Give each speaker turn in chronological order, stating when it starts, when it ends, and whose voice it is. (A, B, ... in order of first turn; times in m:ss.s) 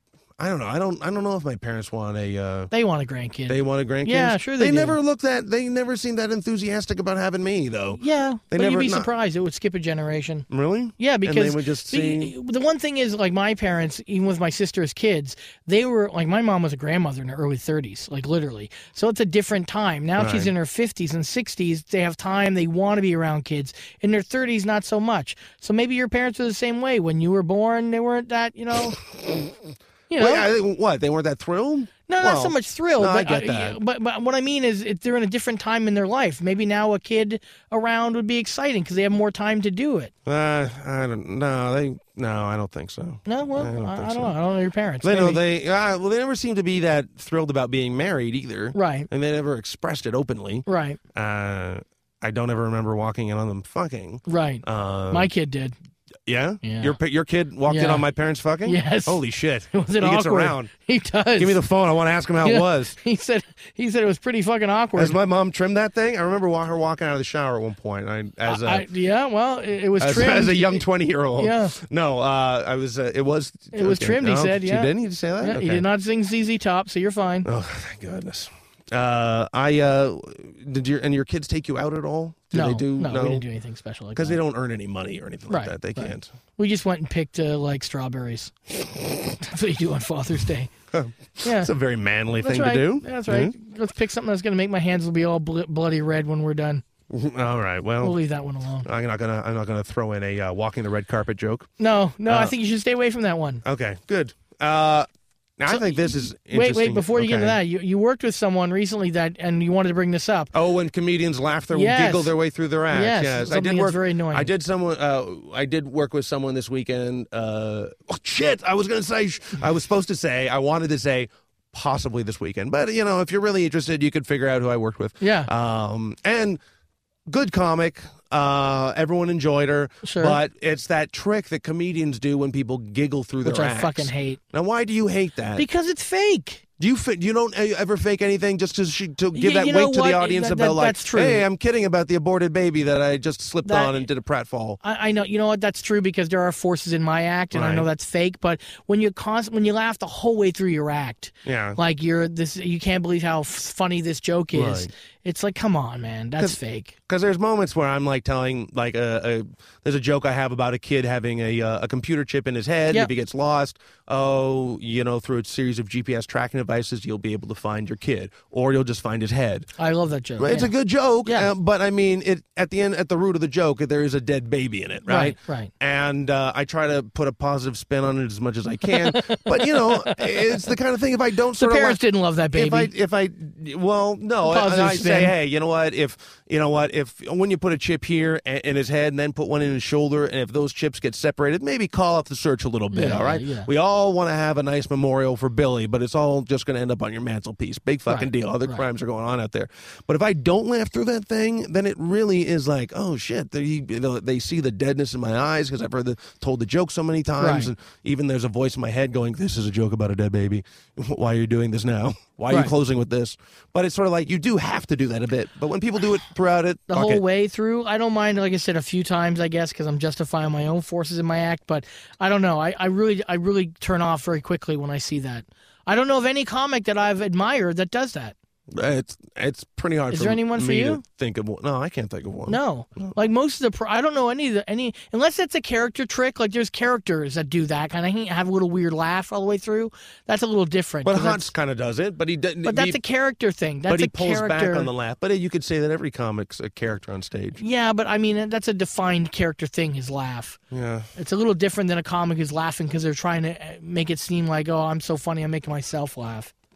0:00.4-0:02.7 A
0:02.7-0:05.0 B
0:03.5-0:09.1 A
0:08.0-0:10.4 B
0:10.5-0:12.3 A
0:11.0-0:29.0 B
0:20.2-0:20.5 A
0:29.2-0:29.5 A
0:30.1-0:30.5 B
0:30.2-0:33.8 A
0:32.1-0:40.1 B
0:40.2-0:44.3 A
0:43.2-0:45.4 B
0:45.0-0:55.3 A
0:48.7-0:49.1 B
0:50.7-0:51.0 B
0:54.3-0:55.7 B
0:56.2-1:00.7 A
0:56.6-0:57.0 B
0:57.7-0:58.0 B
0:58.6-1:01.6 B
1:01.4-1:03.0 A
1:02.4-1:05.2 B
1:05.0-1:08.8 A
1:08.4-1:10.8 B
1:10.0-1:15.8 A
1:11.4-1:11.8 B
1:13.7-1:17.5 B
1:17.4-1:23.4 A
1:22.5-1:24.4 B
1:24.1-1:26.3 A
1:25.5-1:28.5 B
1:29.3-1:30.7 B
1:30.9-1:33.5 A
1:31.4-1:31.7 B
1:32.4-1:36.8 B
1:37.1-1:38.2 A
1:38.0-1:38.9 B
1:38.8-1:41.7 A
1:41.8-1:43.6 B
1:42.3-1:42.5 A
1:43.6-1:45.1 A
1:45.6-1:47.6 A
1:45.7-1:50.5 B
1:50.5-2:06.6 A
1:51.7-1:52.3 B
1:52.9-1:54.5 B
2:05.2-2:05.5 B
2:07.3-2:15.6 A
2:10.0-2:10.4 B
2:13.4-2:14.4 B
2:15.6-2:16.6 B
2:16.8-2:24.8 A
2:19.3-2:21.4 B
2:23.6-2:23.9 B
2:24.8-2:36.9 B
2:27.5-2:27.9 A
2:31.4-2:31.8 A
2:34.5-2:34.9 A
2:36.4-2:49.7 A
2:49.8-2:50.7 B
2:50.4-3:37.2 A
2:51.2-2:51.5 B
2:55.1-2:55.7 B
2:58.9-3:00.4 B
3:01.6-3:02.9 B
3:04.4-3:05.3 B
3:12.9-3:13.7 B
3:18.1-3:18.8 B
3:27.4-3:27.7 B
3:36.9-3:48.3 B
3:48.7-3:53.1 A
3:50.1-3:51.0 B
3:52.5-4:01.5 B
4:01.0-4:03.0 A
4:02.6-4:04.9 B
4:03.9-4:07.6 A
4:07.6-4:10.6 B
4:10.7-4:11.1 A
4:11.2-4:16.5 B